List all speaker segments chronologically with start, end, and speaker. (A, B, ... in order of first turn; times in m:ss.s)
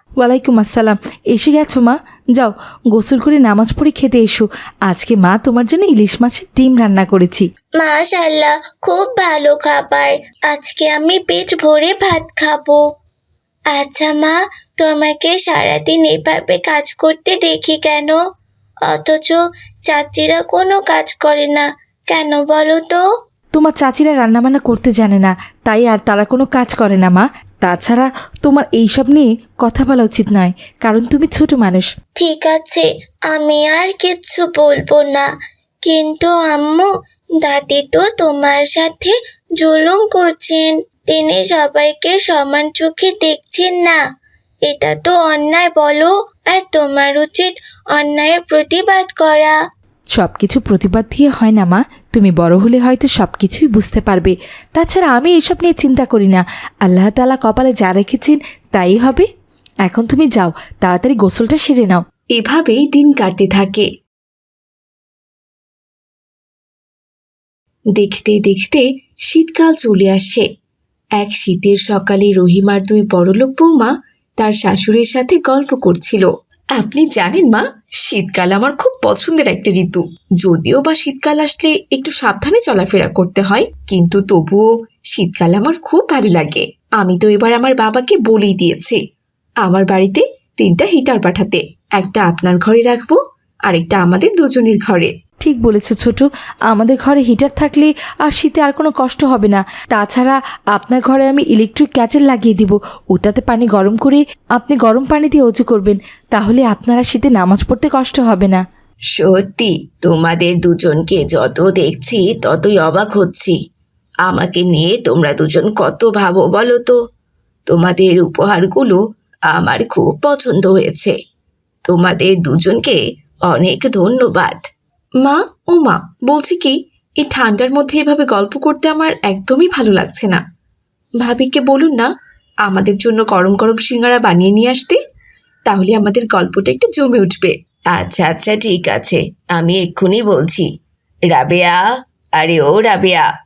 0:00.2-0:07.5 A
0:07.8-0:12.8 B
0:13.7-0:18.2 B
0:18.9-0:23.0 B
0:23.6-0:31.9 A
0:32.2-0:35.3 B
0:35.8-0:36.9 B
0:37.4-0:44.0 B
0:44.6-0:49.6 B
0:50.2-0:59.3 A
0:59.8-1:02.0 A
1:02.4-1:03.9 C
1:08.0-1:10.5 C
1:11.2-1:29.0 C
1:29.6-1:35.1 C
1:35.4-1:48.6 A
1:49.1-1:53.6 D
1:54.2-1:57.0 D
1:57.7-1:59.0 D
1:59.5-2:01.2 D
2:01.9-2:04.6 D
2:05.2-2:10.4 C
2:11.2-2:12.1 C
2:12.6-2:15.0 C
2:15.7-2:17.5 C
2:17.9-2:20.7 D
2:21.3-2:21.8 D
2:22.4-2:23.3 D